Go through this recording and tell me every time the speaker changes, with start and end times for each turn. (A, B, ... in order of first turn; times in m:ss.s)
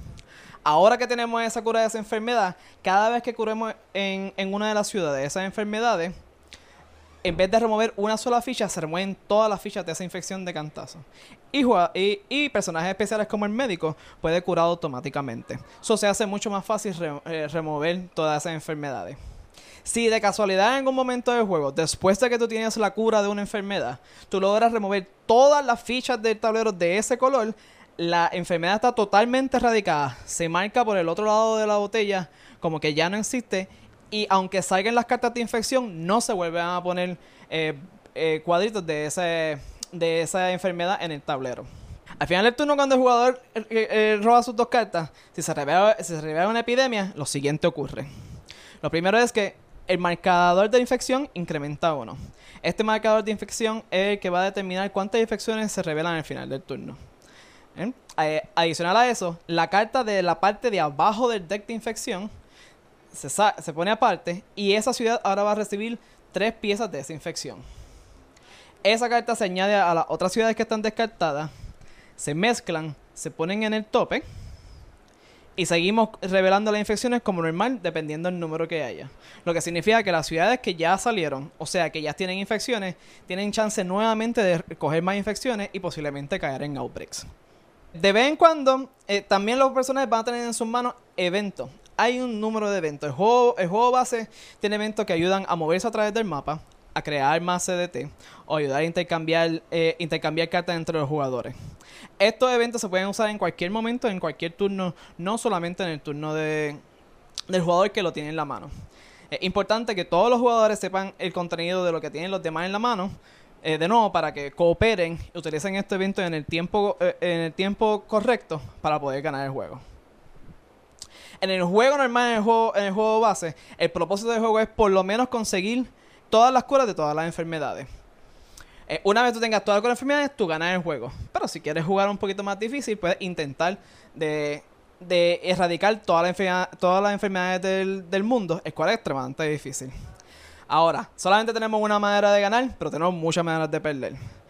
0:00.6-0:06.2 A
0:07.2-0:19.2 A
0:19.8-0:41.7 A
0:42.2-0:48.1 A
0:48.8-0:57.0 A
0:57.8-1:02.3 A
1:03.1-1:07.6 A
1:08.8-1:11.5 A
1:12.2-1:14.2 A
1:15.6-1:27.3 A
1:27.9-1:41.6 A
1:42.2-1:46.8 A
1:47.5-1:48.7 A
1:49.3-1:59.8 A
2:01.4-2:07.9 A
2:08.9-2:20.0 A
2:20.7-2:24.2 A